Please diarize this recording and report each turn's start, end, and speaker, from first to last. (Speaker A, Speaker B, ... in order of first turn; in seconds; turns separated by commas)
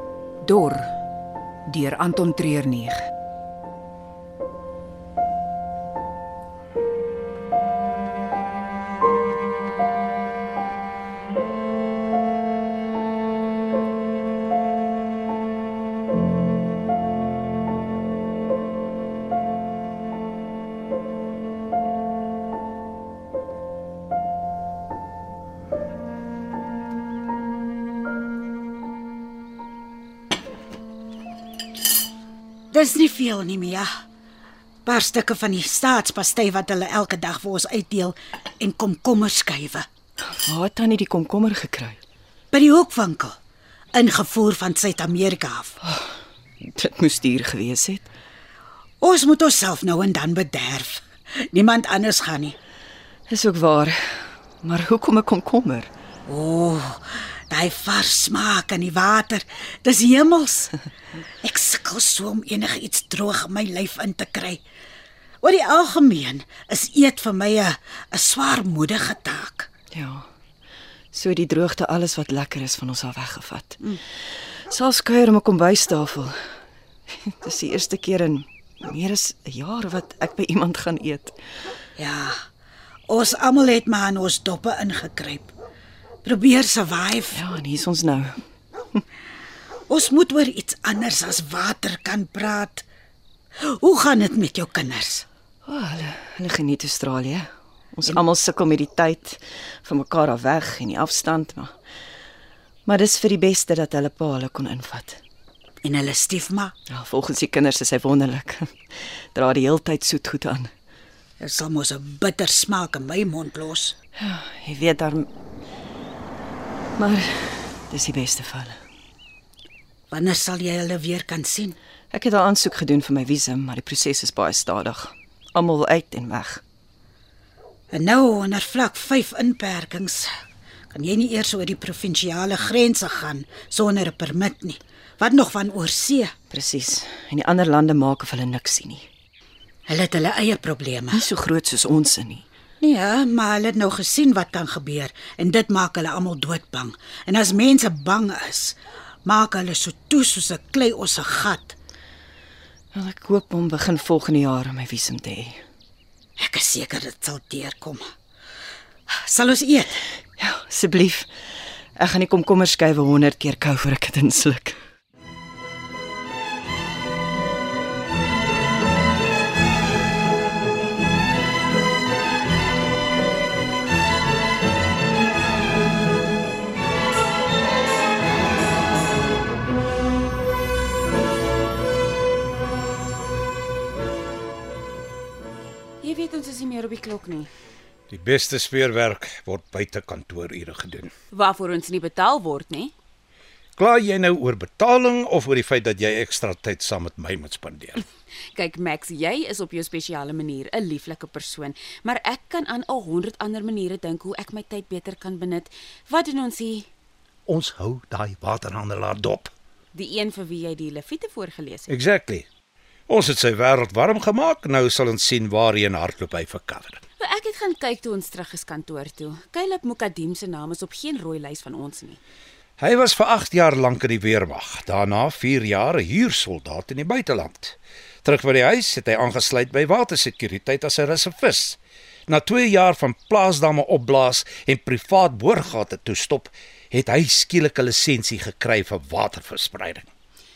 Speaker A: 0.4-0.9, Speaker A: 1.7-3.1, Speaker B: 32.7-33.9, Speaker B: 34.9-39.9, Speaker C: 40.2-42.0, Speaker B: 42.5-43.4, Speaker B: 43.9-45.8, Speaker C: 45.8-48.1, Speaker B: 49.0-52.6, Speaker C: 53.3-55.9, Speaker B: 56.3-60.8, Speaker B: 61.4-64.6, Speaker B: 65.4-69.7, Speaker C: 69.9-70.3, Speaker C: 71.1-74.0, Speaker C: 74.7-76.4, Speaker C: 77.1-81.4, Speaker B: 82.0-82.5, Speaker B: 83.1-85.5, Speaker B: 86.2-87.4, Speaker C: 87.3-88.4, Speaker B: 89.9-92.9, Speaker B: 93.8-95.3, Speaker C: 95.7-101.7, Speaker C: 102.9-105.2, Speaker B: 105.8-106.8, Speaker C: 106.9-108.8, Speaker C: 109.3-110.7, Speaker B: 111.4-114.0, Speaker C: 114.2-115.3, Speaker C: 117.0-118.8, Speaker B: 120.1-121.8, Speaker C: 122.1-126.6, Speaker B: 127.9-130.3, Speaker B: 130.9-136.3, Speaker C: 136.5-139.1, Speaker B: 139.9-141.3, Speaker C: 141.1-142.4, Speaker B: 142.8-151.8, Speaker C: 152.9-155.6, Speaker B: 156.4-158.1, Speaker B: 159.1-160.0, Speaker C: 160.4-161.3, Speaker C: 162.0-164.8, Speaker D: 186.0-187.5, Speaker E: 188.1-191.1, Speaker D: 191.3-192.9, Speaker E: 193.8-198.0, Speaker D: 198.5-206.9, Speaker E: 207.5-209.5, Speaker A: 208.6-209.2, Speaker D: 209.9-211.9, Speaker E: 211.9-212.4, Speaker E: 213.1-217.0, Speaker D: 217.2-222.2, Speaker E: 222.8-227.7, Speaker E: 228.2-240.1, Speaker A: 229.2-230.5, Speaker A: 234.6-235.0